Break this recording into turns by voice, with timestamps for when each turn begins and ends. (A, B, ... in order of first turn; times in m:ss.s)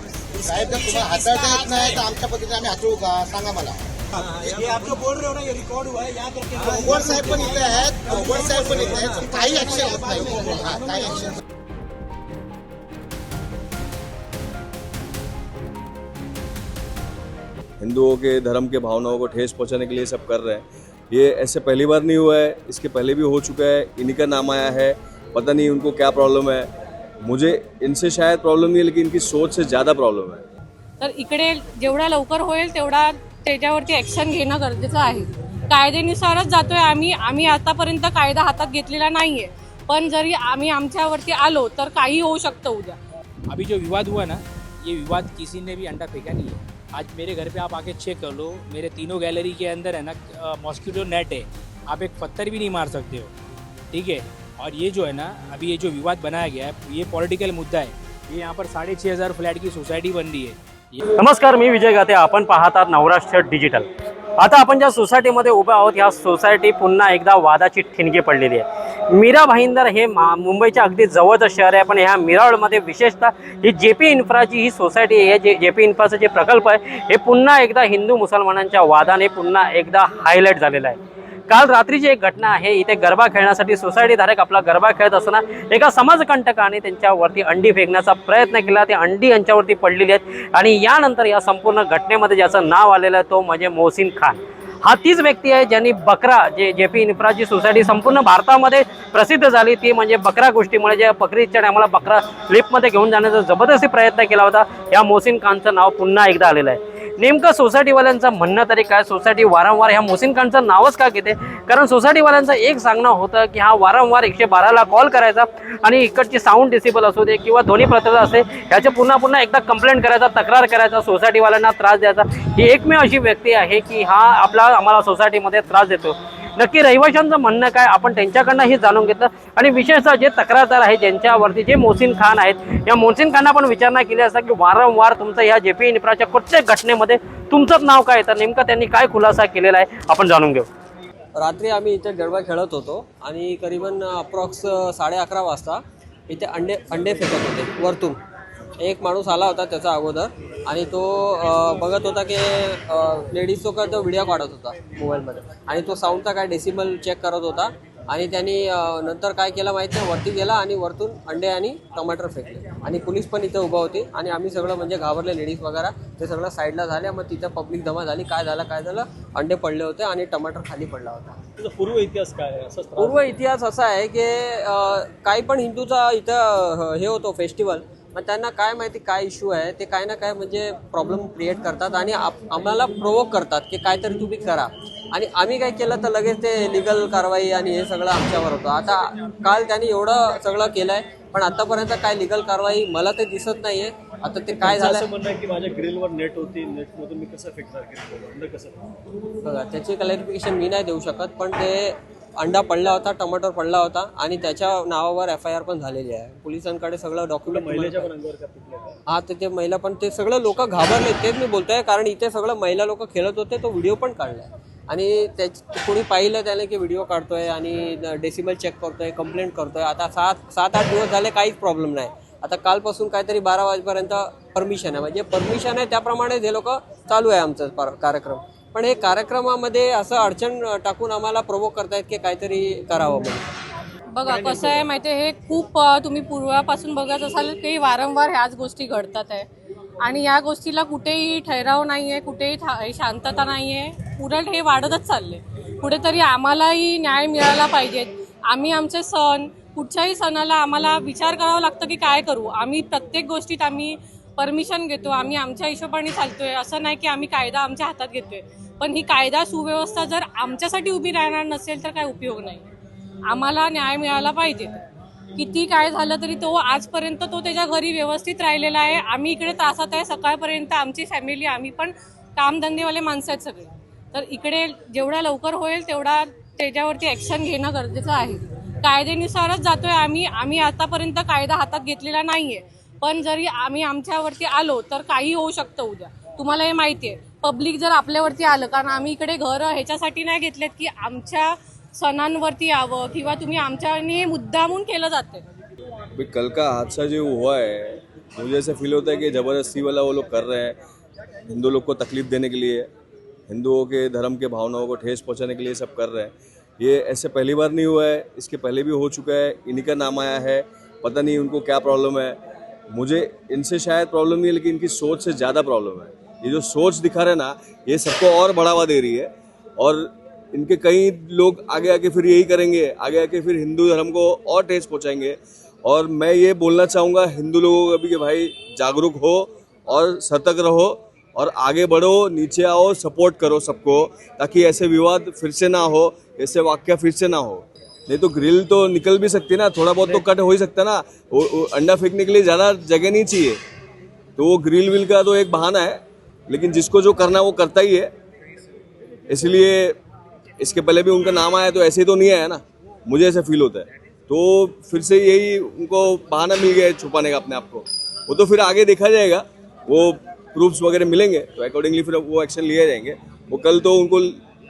0:00.4-0:03.8 A
0:06.7-0:11.4 A
0:17.8-0:26.7 B
0:27.2-0:30.4 B
0:31.0-0:43.0 C
0:43.5-0:53.3 D
0:53.9-1:01.0 D
1:01.2-1:21.0 E
1:21.5-2:20.7 E
2:21.4-2:28.2 F
2:28.8-2:51.4 F
2:51.6-2:53.3 G
2:52.9-3:15.1 F
3:14.6-3:18.9 G
3:19.4-3:28.2 F
3:27.5-3:29.0 G
3:29.1-3:53.4 F
3:54.1-3:59.5 C
3:54.4-3:54.8 F
4:00.0-4:22.7 C
4:23.3-4:24.7 C
4:25.4-4:55.4 C
4:56.2-5:00.8 B
5:01.5-5:02.9 B
5:03.5-5:12.4 B
5:12.9-5:43.6 B
5:44.4-5:48.1 B
5:49.3-5:50.0 B
5:50.6-6:04.4 B